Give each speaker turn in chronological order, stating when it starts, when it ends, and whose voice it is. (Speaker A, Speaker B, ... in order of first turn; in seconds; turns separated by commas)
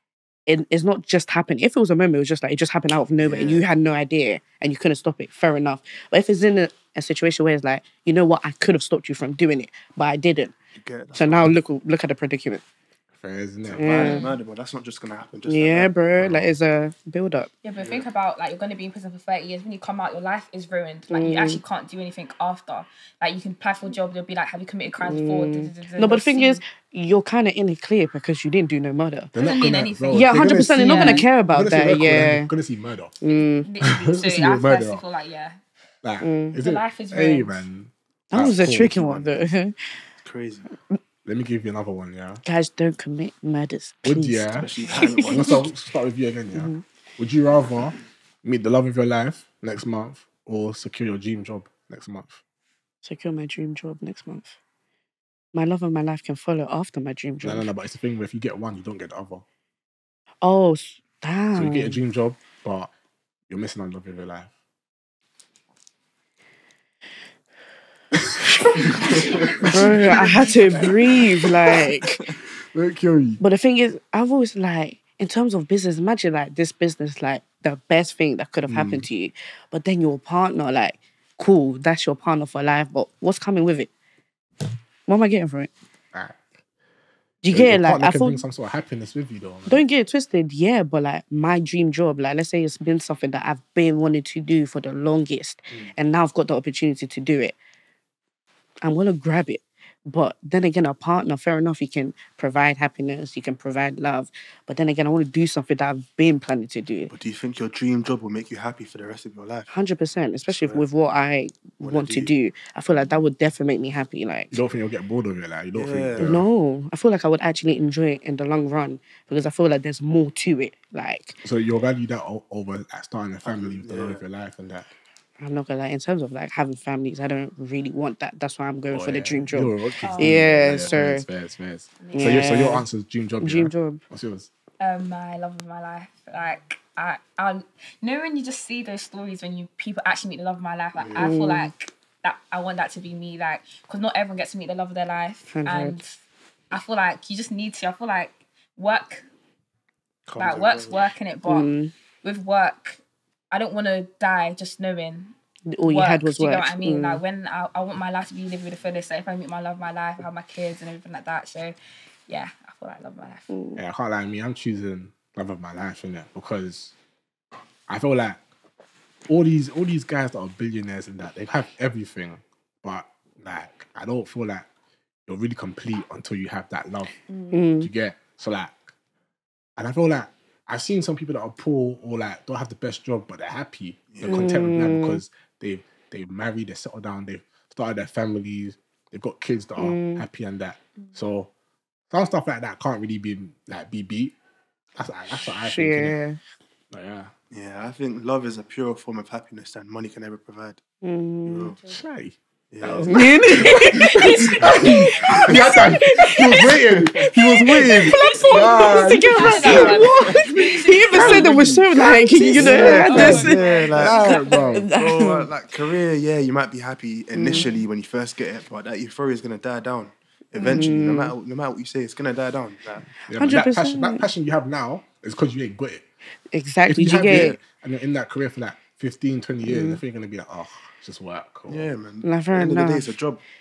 Speaker A: 0.5-10.5, Speaker B: 3.2-3.6, Speaker B: 10.8-11.5, Speaker A: 11.1-12.6, Speaker C: 13.2-14.2, Speaker B: 13.6-16.2, Speaker A: 13.8-14.3, Speaker D: 14.0-14.4, Speaker A: 15.5-17.5, Speaker C: 16.2-16.5, Speaker D: 17.6-26.6, Speaker B: 17.8-18.1, Speaker A: 21.1-21.6, Speaker A: 25.0-29.3, Speaker C: 29.3-33.1, Speaker D: 29.4-31.2, Speaker A: 30.1-32.5, Speaker A: 33.2-33.7, Speaker D: 33.3-35.6, Speaker C: 33.8-35.0, Speaker C: 36.0-39.2, Speaker A: 36.2-36.6, Speaker D: 36.6-37.6, Speaker A: 38.3-39.8, Speaker B: 38.6-39.5, Speaker B: 40.2-40.7, Speaker C: 41.2-42.4, Speaker A: 42.5-45.6, Speaker C: 44.0-52.4, Speaker B: 44.5-45.6, Speaker D: 44.9-45.2, Speaker A: 46.5-46.8, Speaker A: 53.0-54.6, Speaker A: 55.5-57.7, Speaker C: 57.4-59.4, Speaker A: 60.4-62.0, Speaker C: 61.5-62.9, Speaker C: 63.5-64.5, Speaker C: 68.2-71.3, Speaker B: 69.1-70.2, Speaker A: 69.6-72.2, Speaker C: 72.7-73.4, Speaker A: 73.4-83.9, Speaker C: 78.7-79.1, Speaker A: 85.1-85.7, Speaker C: 86.1-86.5, Speaker A: 87.4-88.4, Speaker C: 87.5-89.8, Speaker A: 89.7-97.5, Speaker A: 98.8-107.1, Speaker B: 107.1-109.7, Speaker A: 109.7-114.5, Speaker B: 110.5-110.8, Speaker B: 111.8-112.3, Speaker D: 112.9-113.2, Speaker C: 114.5-116.5, Speaker B: 115.8-116.4, Speaker A: 116.2-121.4, Speaker C: 121.4-124.9, Speaker B: 123.4-124.2, Speaker A: 125.4-131.2, Speaker C: 128.9-134.5, Speaker D: 130.0-131.0, Speaker D: 132.0-132.6, Speaker A: 132.1-132.9, Speaker A: 133.4-134.0, Speaker D: 134.8-146.2, Speaker C: 141.0-141.3, Speaker A: 141.2-141.7, Speaker A: 145.5-146.0, Speaker D: 146.7-149.2, Speaker B: 150.3-151.1, Speaker D: 150.4-151.7, Speaker A: 151.4-151.9, Speaker D: 152.2-153.0, Speaker D: 153.5-161.8, Speaker A: 155.7-157.2, Speaker D: 162.3-163.5, Speaker A: 163.5-163.8, Speaker C: 163.8-166.9, Speaker C: 167.9-168.4, Speaker C: 169.3-174.7, Speaker C: 175.3-177.1, Speaker D: 177.3-177.6, Speaker A: 177.5-177.9, Speaker C: 177.8-178.9, Speaker C: 179.8-191.5, Speaker B: 184.1-184.5, Speaker A: 184.2-185.2, Speaker A: 189.8-190.2, Speaker C: 192.1-194.3, Speaker C: 195.0-196.2, Speaker A: 195.5-196.4, Speaker C: 196.9-197.3, Speaker B: 197.5-200.8, Speaker A: 201.0-201.8, Speaker B: 201.5-201.8, Speaker C: 201.9-204.0, Speaker B: 202.7-205.9, Speaker A: 203.0-215.5, Speaker D: 203.9-204.5, Speaker C: 204.6-207.3, Speaker D: 205.1-206.2, Speaker B: 206.9-208.2, Speaker D: 208.1-211.7, Speaker C: 208.5-210.0, Speaker B: 209.5-214.3, Speaker C: 211.1-214.9, Speaker D: 212.6-214.7, Speaker B: 214.9-223.1, Speaker A: 217.3-217.7, Speaker D: 217.5-217.8, Speaker A: 220.6-221.3, Speaker A: 223.3-224.3, Speaker C: 223.3-226.0, Speaker A: 226.5-227.6, Speaker C: 226.8-231.9, Speaker B: 227.1-227.6, Speaker A: 229.6-230.0, Speaker B: 231.7-233.4, Speaker A: 232.2-233.1